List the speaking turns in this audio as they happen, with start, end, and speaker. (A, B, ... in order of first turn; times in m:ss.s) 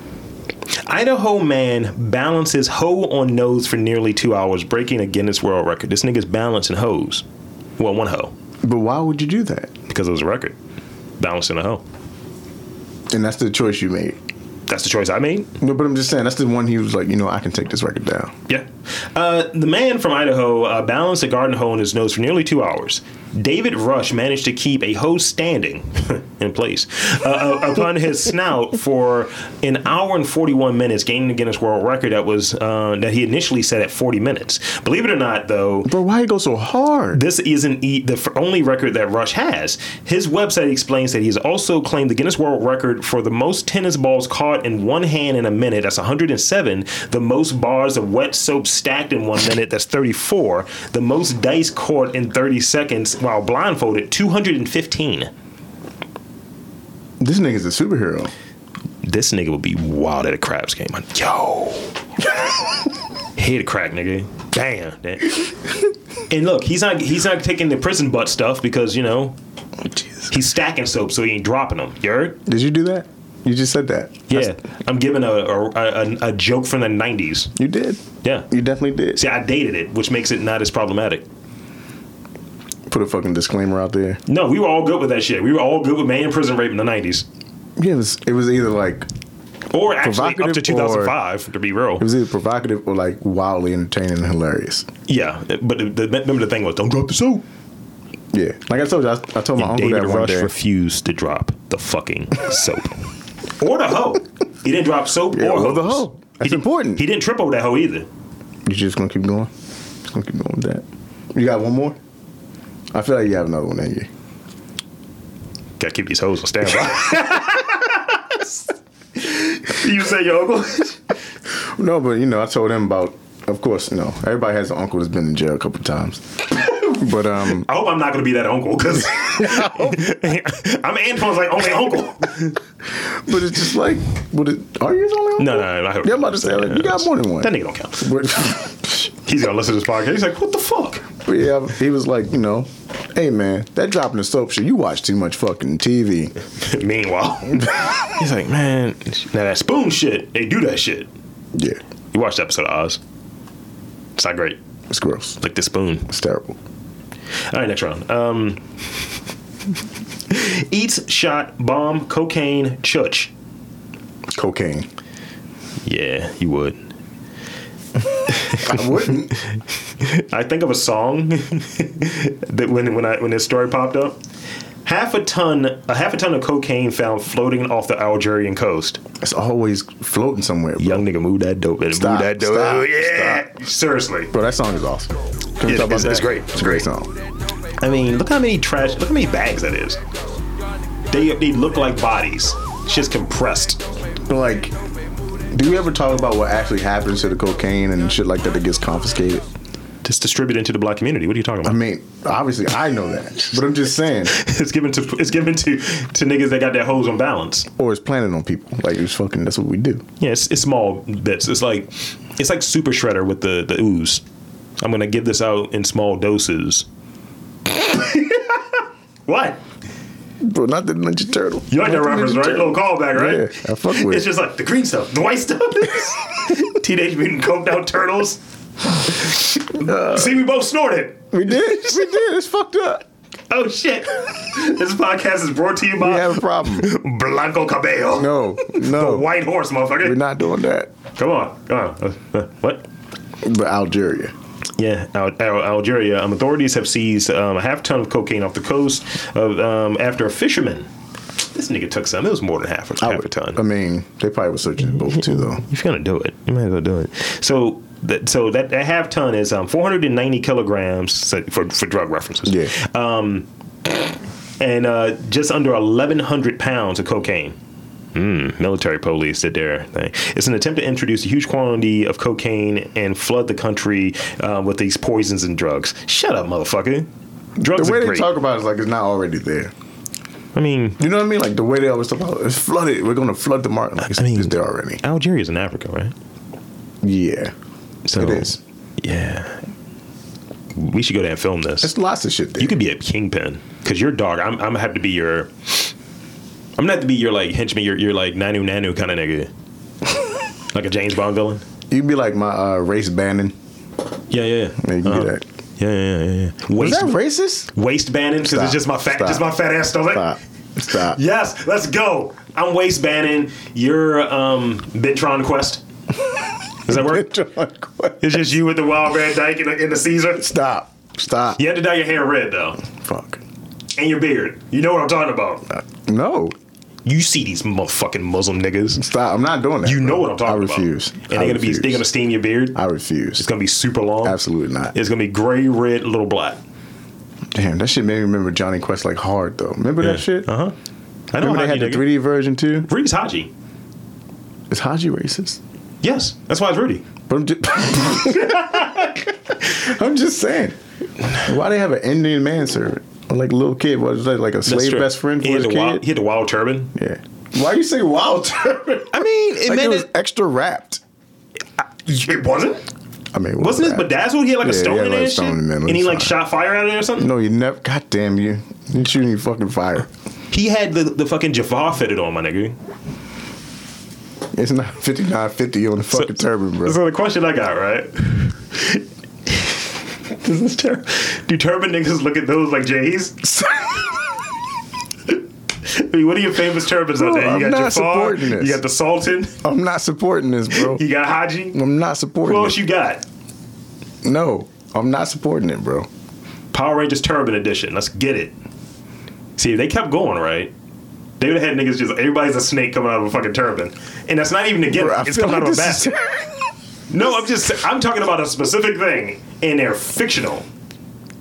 0:00.8-0:07.2 A
0:07.8-0:08.3 A
0:08.6-0:09.7 B
0:09.9-0:10.6 A
0:11.2-0:11.8 A
0:13.1-0:14.2 B
0:14.7-0:15.5 A
0:15.6-0:18.4 B
0:18.5-0:35.9 A
0:35.8-0:37.2 B
0:37.1-0:55.3 A
0:57.2-0:58.3 B
0:59.0-1:02.0 A
1:03.4-1:05.5 A
1:06.3-1:09.4 A
1:10.3-1:12.4 A
1:12.5-1:14.5 B
1:14.3-1:17.5 A
1:17.6-1:19.2 B
1:18.2-1:18.5 A
1:19.2-1:21.2 A
1:22.9-1:24.2 B
1:24.3-1:27.2 A
1:27.8-1:29.1 B
1:29.7-1:32.1 A
1:30.0-1:31.2 B
1:32.0-1:34.9 B
1:35.1-1:37.4 A
1:38.3-1:40.5 B
1:39.6-1:43.0 A
1:43.6-1:48.1 A
1:45.3-1:47.0 B
1:48.7-1:49.5 B
1:50.1-1:52.0 B
1:52.9-1:54.1 B
1:55.8-2:01.0 A
2:01.6-2:07.7 B
2:07.5-2:12.6 A
2:09.4-2:10.1 B
2:12.9-2:19.0 B
2:15.4-2:18.3 A
2:19.0-2:21.1 A
2:21.2-2:26.3 B
2:26.6-2:31.1 A
2:31.5-2:31.8 B
2:32.1-2:33.0 A
2:34.2-2:34.6 A
2:34.9-2:35.4 B
2:35.4-2:36.1 A
2:36.1-2:36.6 B
2:37.5-2:38.6 A
2:40.3-2:43.3 A
2:44.3-2:44.9 B
2:45.8-2:46.8 A
2:48.3-2:48.8 A
2:48.5-2:49.4 B
2:50.0-2:54.2 A
2:54.8-2:59.0 A
2:59.2-3:01.1 B
3:00.8-3:04.3 A
3:01.9-3:03.5 B
3:04.3-3:07.1 B
3:05.6-3:06.9 A
3:07.8-3:10.0 A
3:11.1-3:13.8 A
3:14.2-3:14.8 B
3:15.5-3:19.5 B
3:20.0-3:21.8 A
3:21.6-3:24.4 B
3:24.3-3:27.7 A
3:27.8-3:30.0 B
3:30.2-3:34.2 A
3:34.8-3:36.9 A
3:37.7-3:39.6 A
3:40.4-3:44.3 B
3:41.7-3:48.4 A
3:49.0-3:51.6 A
3:49.7-3:50.4 B
3:51.3-3:53.1 B
3:53.5-4:00.2 A
3:56.0-3:56.9 B
3:58.1-3:59.3 B
4:00.0-4:00.9 B
4:01.2-4:02.8 A
4:03.4-4:04.3 B
4:04.8-4:10.9 A
4:11.4-4:13.6 A
4:13.0-4:15.6 B
4:15.1-4:24.0 A
4:22.5-4:22.7 B
4:24.6-4:27.6 A
4:28.2-4:38.3 A
4:37.7-4:39.7 B
4:40.6-4:41.0 A
4:41.0-4:45.0 B
4:44.1-4:46.1 A
4:47.0-4:47.5 B
4:48.1-4:49.6 A
4:48.2-4:48.6 B
4:50.7-4:51.9 A
4:51.8-4:52.8 B
4:52.6-4:55.9 A
4:56.8-4:59.5 A
5:00.7-5:01.6 A
5:01.9-5:03.6 B
5:04.3-5:07.2 A
5:04.8-5:05.4 B
5:06.8-5:07.7 B
5:07.7-5:10.4 A
5:08.4-5:09.5 B
5:10.1-5:11.2 B
5:10.9-5:15.8 A
5:16.9-5:18.4 B
5:16.9-5:17.3 A
5:18.2-5:20.5 A
5:20.4-5:21.6 B
5:21.6-5:22.8 A
5:23.0-5:23.4 B
5:24.0-5:25.7 A
5:25.7-5:26.6 B
5:27.1-5:29.0 A
5:29.0-5:32.0 B
5:29.8-5:32.8 A
5:32.8-5:33.5 B
5:33.4-5:34.4 A
5:34.2-5:35.0 B
5:34.9-5:36.6 A
5:37.5-5:40.5 B
5:40.0-5:40.7 A
5:41.3-5:42.1 A
5:41.3-5:42.9 B
5:42.8-5:43.5 A
5:44.7-5:45.6 B
5:46.0-5:47.0 A
5:47.3-5:50.8 B
5:51.3-5:56.1 B
5:54.6-5:57.0 A
5:57.0-6:01.0 B
5:59.1-6:00.1 A
6:01.8-6:02.8 A
6:03.3-6:06.4 B
6:03.6-6:07.3 A
6:07.2-6:10.1 B
6:10.5-6:12.8 A
6:14.5-6:17.0 B
6:16.1-6:23.7 A
6:25.8-6:29.6 A
6:27.2-6:28.8 B
6:29.6-6:31.0 B
6:30.7-6:31.8 A
6:31.7-6:32.8 B
6:32.4-6:33.2 A
6:34.2-6:36.1 B
6:36.7-6:38.5 A
6:39.6-6:40.7 A
6:41.4-6:46.2 A
6:44.9-6:46.6 B
6:47.1-6:50.7 A